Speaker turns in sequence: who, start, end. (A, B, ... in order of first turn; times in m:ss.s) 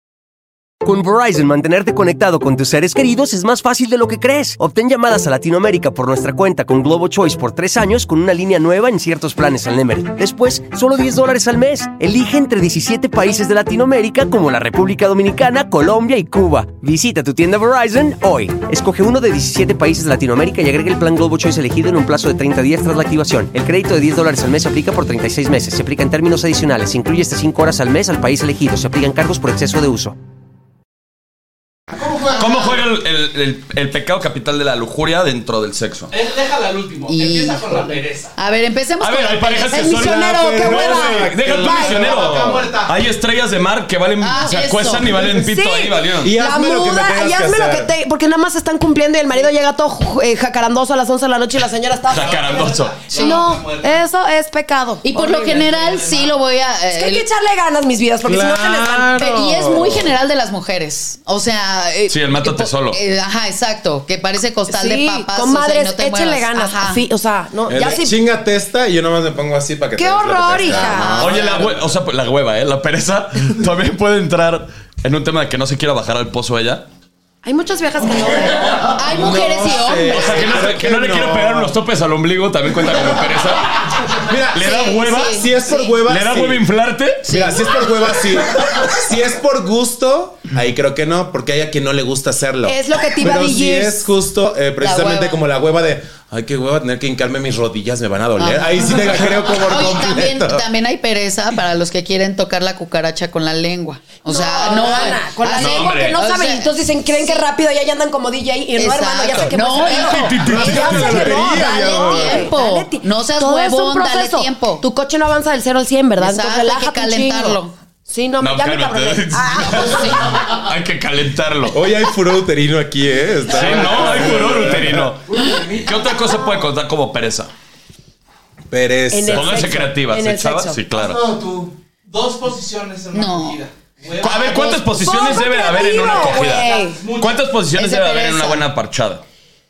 0:00.8-0:30.2 A
0:31.9-0:32.8 B
0:32.3-0:36.1 C
0:36.1-0:38.3 D
0:37.1-0:40.0 E
0:39.0-0:46.3 C
0:39.7-0:42.1 F
0:39.9-0:42.9 G
0:44.2-0:45.2 E
0:45.1-0:55.6 F
0:46.2-0:47.9 G
0:52.1-0:53.0 C
0:52.1-0:54.0 D
0:53.1-0:53.4 E
0:55.0-0:57.2 E
0:55.4-0:56.3 D
0:56.9-0:59.2 F
0:58.2-1:00.1 G
0:59.1-1:07.0 E
1:02.1-1:03.0 C
1:04.7-1:08.2 F
1:07.7-1:11.8 G
1:10.0-1:11.5 F
1:10.7-1:11.6 E
1:11.2-1:16.8 C
1:17.4-1:19.1 F
1:19.0-1:20.5 E
1:19.1-1:21.8 G
1:20.1-1:23.8 C
1:24.2-1:26.6 G
1:24.5-1:25.5 C
1:24.6-1:25.5 E
1:26.0-1:27.5 C
1:27.2-1:27.7 E
1:27.3-1:40.6 G
1:32.6-1:34.1 F
1:34.8-1:35.4 E
1:38.4-1:38.9 E
1:39.6-1:47.4 E
1:44.2-2:00.3 F
1:45.6-1:46.2 C
1:48.8-1:54.8 E
1:49.8-1:51.3 C
1:50.4-1:52.5 G
1:56.2-1:57.7 E
1:58.4-2:01.8 C
1:59.7-2:00.6 B
2:01.7-2:05.1 G
2:03.5-2:07.5 C
2:03.8-2:06.2 B
2:06.2-2:06.6 F
2:08.7-2:09.7 G
2:09.1-2:10.9 F
2:09.3-2:11.2 C
2:10.9-2:11.7 B
2:12.1-2:14.8 D
2:13.1-2:13.6 E
2:14.2-2:19.2 C
2:14.5-2:17.0 F
2:16.1-2:17.4 D
2:17.8-2:18.6 F